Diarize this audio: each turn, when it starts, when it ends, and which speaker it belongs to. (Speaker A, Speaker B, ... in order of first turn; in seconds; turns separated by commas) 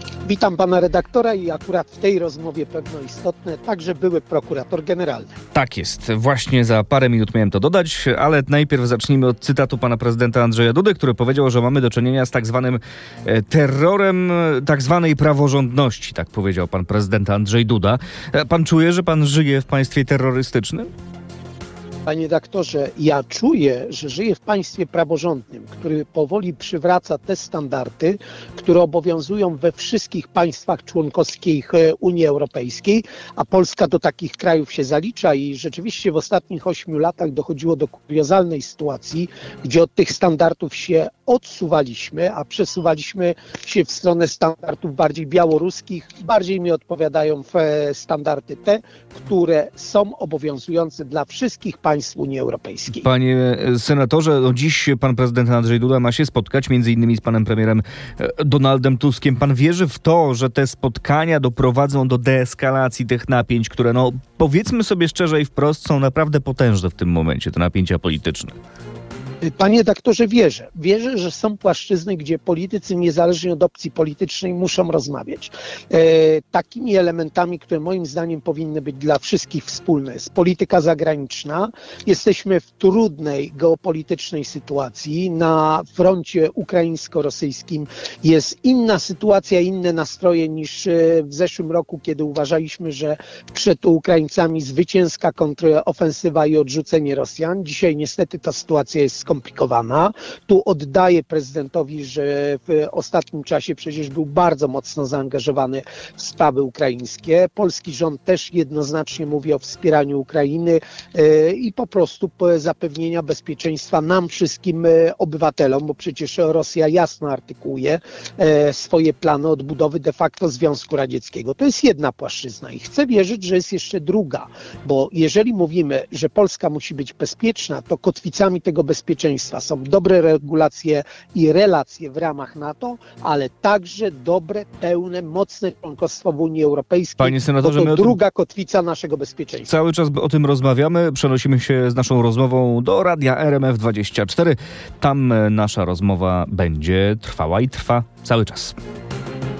Speaker A: 0.2-5.3, Speaker B: 5.5-20.9, Speaker A: 22.1-53.1, Speaker B: 52.9-68.6, Speaker A: 69.4-139.7, Speaker B: 137.2-138.2, Speaker B: 139.7-148.8